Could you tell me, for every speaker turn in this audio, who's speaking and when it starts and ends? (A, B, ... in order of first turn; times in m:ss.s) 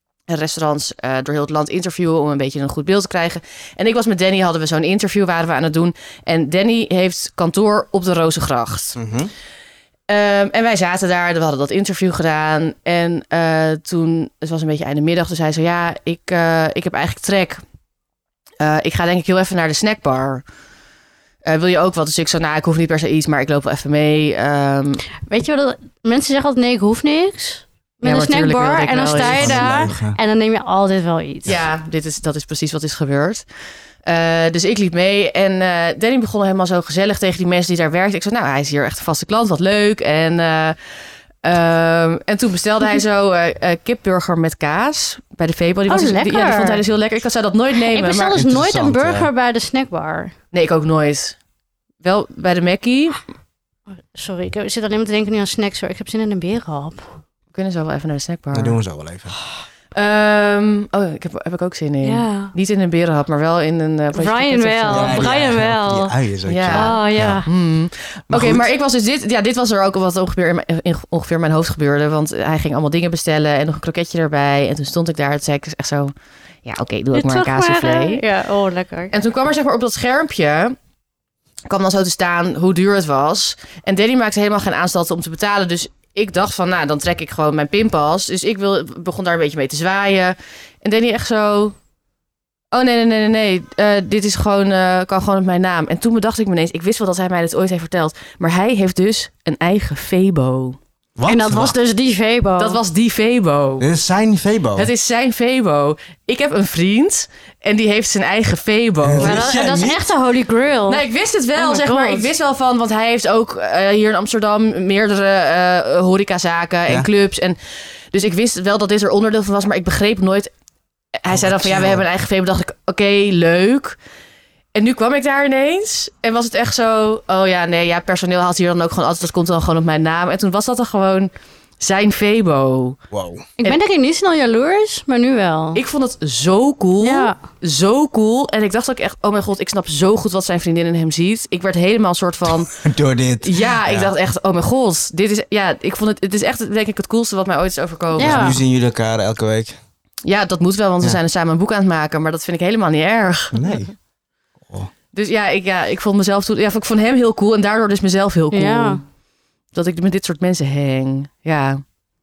0:00.3-0:09.0 A
0:09.0-0:09.3 B
0:10.1-0:17.6 A
0:18.6-0:20.4 A
0:21.4-0:25.0 A
0:25.3-0:31.6 C
0:28.0-0:29.6 A
0:29.1-0:30.2 B
0:31.5-0:33.4 A
0:34.0-0:40.8 A
0:41.4-0:48.4 A
0:45.9-0:46.8 C
0:47.9-0:50.3 C
0:48.3-0:49.3 B
0:50.5-0:51.4 A
0:52.0-0:53.2 A
0:54.1-0:57.0 C
0:57.5-0:58.8 A
0:58.5-0:59.3 B
0:59.9-1:05.3 A
1:02.0-1:02.5 C
1:04.1-1:06.2 C
1:04.9-1:07.4 B
1:06.5-1:16.1 A
1:06.7-1:07.5 C
1:08.3-1:08.7 B
1:16.6-1:18.2 A
1:17.1-1:19.1 C
1:19.1-1:20.8 A
1:21.7-1:31.8 A
1:32.7-1:40.8 A
1:41.2-1:41.8 B
1:41.3-1:42.8 C
1:42.6-1:43.9 A
1:43.8-1:44.9 B
1:44.8-1:49.7 A
1:49.0-1:50.1 B
1:49.2-1:52.3 C
1:50.9-2:00.5 A
2:01.2-2:04.0 A
2:01.3-2:02.0 B
2:04.8-2:13.0 A
2:13.1-2:13.4 B
2:13.6-2:15.8 C
2:15.8-2:22.8 A
2:17.0-2:17.4 C
2:22.7-2:24.1 B
2:23.4-2:28.5 A
2:28.2-2:28.6 C
2:28.2-2:29.8 B
2:30.2-2:33.6 A
2:33.5-2:33.9 B
2:35.1-2:39.0 A
2:38.5-2:39.0 C
2:39.7-2:41.8 A